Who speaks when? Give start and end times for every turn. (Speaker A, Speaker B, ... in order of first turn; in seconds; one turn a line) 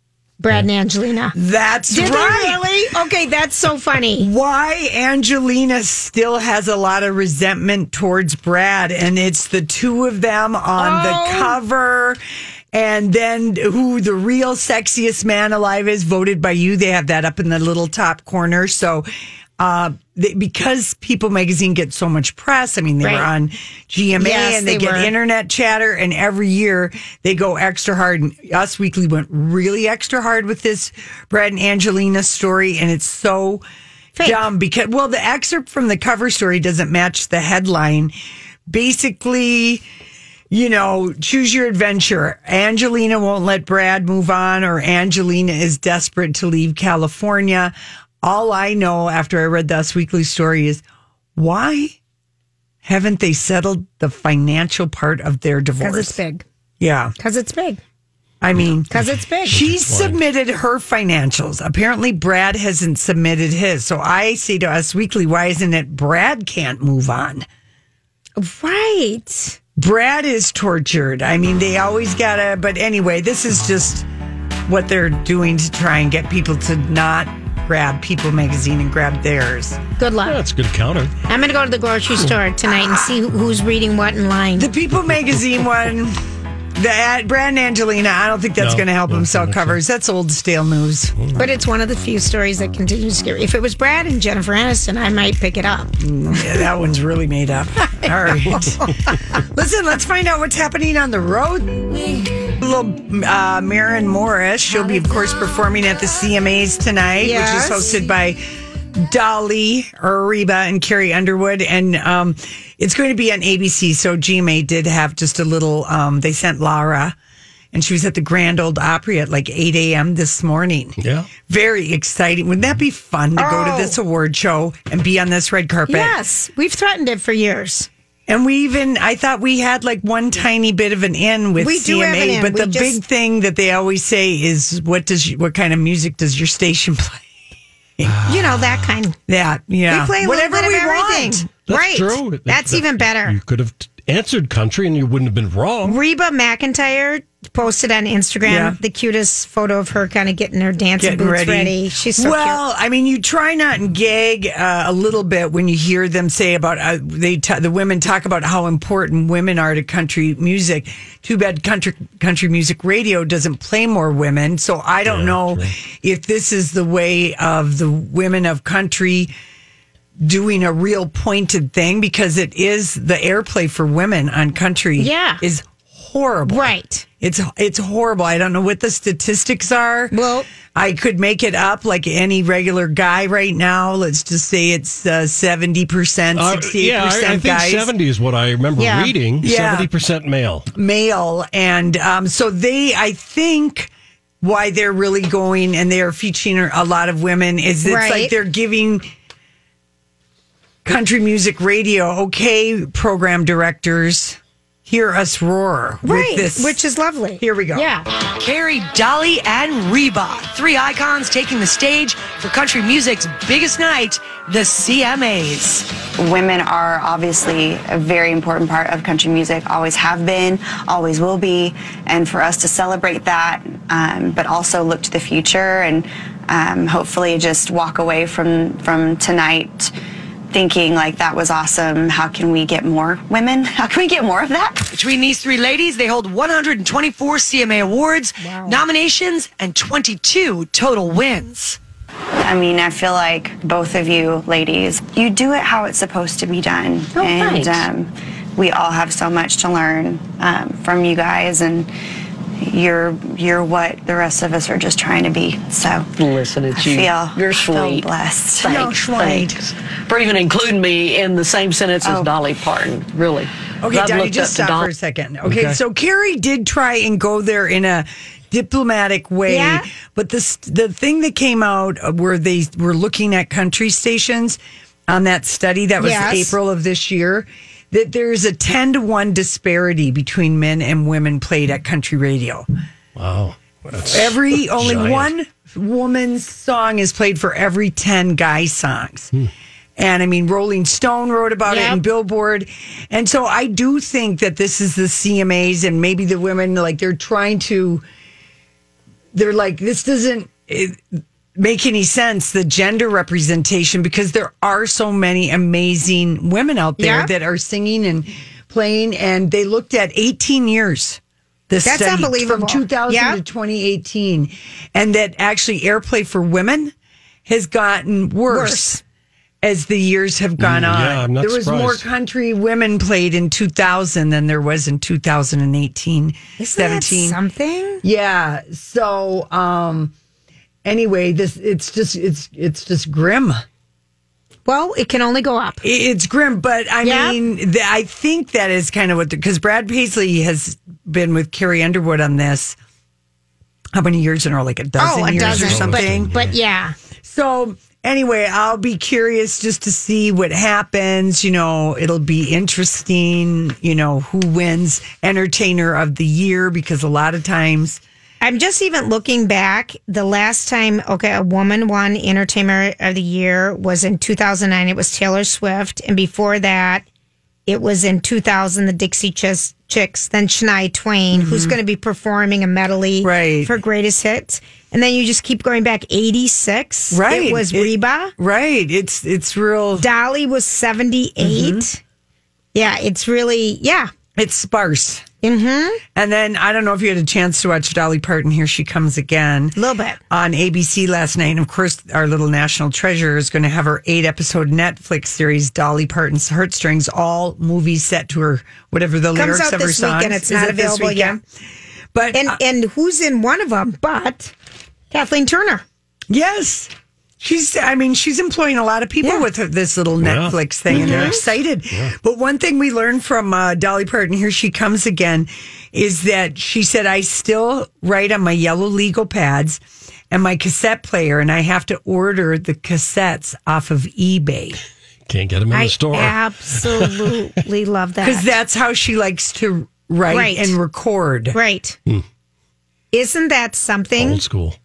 Speaker A: 0.4-1.4
Speaker B: 1.4-2.7
Speaker A: 1.9-4.3
Speaker B: 4.2-12.2
Speaker A: 10.8-11.6
Speaker B: 12.7-19.1
Speaker B: 19.6-33.6
Speaker A: 23.0-23.3
Speaker A: 24.2-25.1
Speaker A: 34.2-34.5
Speaker B: 34.2-38.1
Speaker B: 38.7-39.9
Speaker B: 40.5-50.8
Speaker B: 51.4-52.0
Speaker B: 52.8-56.2
Speaker A: 55.8-56.5
Speaker B: 56.8-57.1
Speaker A: 57.2-57.8
Speaker B: 58.4-59.0
Speaker A: 58.9-59.6
Speaker C: 58.9-60.2
Speaker B: 59.5-67.5
Speaker A: 68.4-69.6
Speaker B: 69.8-74.1
Speaker B: 74.7-79.8
Speaker A: 80.0-80.4
Speaker C: 80.2-81.1
Speaker A: 81.3-84.7
Speaker B: 84.6-86.2
Speaker B: 86.8-91.1
Speaker C: 88.6-89.8
Speaker A: 91.3-95.9
Speaker B: 96.0-98.8
Speaker A: 98.0-99.2
Speaker B: 99.4-117.2
Speaker A: 104.7-105.1
Speaker A: 107.2-108.0
Speaker B: 117.7-126.2
Speaker C: 121.0-121.3
Speaker A: 123.4-124.0
Speaker A: 125.9-127.9
Speaker B: 128.3-137.2
Speaker A: 131.6-133.0
Speaker C: 138.1-139.0
Speaker A: 138.2-139.2
Speaker B: 139.3-141.5
Speaker A: 139.9-143.4
Speaker C: 141.7-146.0
Speaker A: 145.8-152.6
Speaker B: 148.4-148.8
Speaker B: 151.0-169.3
Speaker C: 165.1-165.7
Speaker B: 170.2-180.1
Speaker A: 175.0-175.4
Speaker A: 176.5-177.1
Speaker A: 180.1-180.5
Speaker B: 180.7-187.9
Speaker C: 186.3-190.7
Speaker A: 188.8-189.2
Speaker B: 189.4-189.9
Speaker B: 190.7-199.1
Speaker A: 197.8-198.3
Speaker B: 200.8-206.8
Speaker A: 206.0-208.1
Speaker B: 207.4-207.9
Speaker D: 208.4-215.9
Speaker E: 216.2-229.9
Speaker E: 230.5-234.9
Speaker D: 234.9-241.8
Speaker A: 238.4-238.8
Speaker E: 242.4-251.9
Speaker F: 247.2-247.9
Speaker E: 252.6-256.1
Speaker F: 256.1-258.1
Speaker E: 256.7-258.8
Speaker F: 258.6-264.9
Speaker B: 258.6-259.6
Speaker E: 262.0-262.3
Speaker B: 263.8-282.7
Speaker C: 265.4-265.8
Speaker A: 269.5-269.9
Speaker A: 276.0-276.6
Speaker C: 283.2-285.3
Speaker B: 284.1-289.3
Speaker B: 290.0-298.0
Speaker A: 291.7-292.0
Speaker B: 299.3-316.9
Speaker A: 307.0-307.3
Speaker A: 311.8-313.4
Speaker B: 317.5-319.0
Speaker A: 318.5-319.0
Speaker B: 319.6-327.4
Speaker C: 320.6-322.1
Speaker A: 326.6-328.0
Speaker B: 328.0-330.1
Speaker B: 330.9-333.6
Speaker A: 334.7-335.8
Speaker B: 335.8-342.8
Speaker A: 337.0-337.4
Speaker B: 343.9-346.3
Speaker A: 345.0-346.9
Speaker C: 345.4-346.5
Speaker B: 347.2-358.0
Speaker A: 358.4-367.1
Speaker A: 367.7-378.3
Speaker B: 371.3-371.8
Speaker B: 373.2-373.7
Speaker B: 377.1-380.1
Speaker A: 380.0-382.0
Speaker B: 381.4-381.9
Speaker A: 382.7-384.1
Speaker B: 384.4-385.2
Speaker A: 385.4-386.0
Speaker B: 386.1-389.8
Speaker A: 389.8-390.2
Speaker B: 390.3-401.4
Speaker A: 399.4-401.4
Speaker B: 402.1-402.6
Speaker A: 402.3-404.5
Speaker A: 405.1-405.8
Speaker B: 406.3-424.8
Speaker C: 410.2-411.4
Speaker A: 410.9-411.4
Speaker C: 425.3-427.3
Speaker A: 425.7-428.5
Speaker B: 428.2-431.6
Speaker A: 430.3-430.8
Speaker A: 431.5-432.0
Speaker A: 433.1-434.4
Speaker C: 434.2-434.8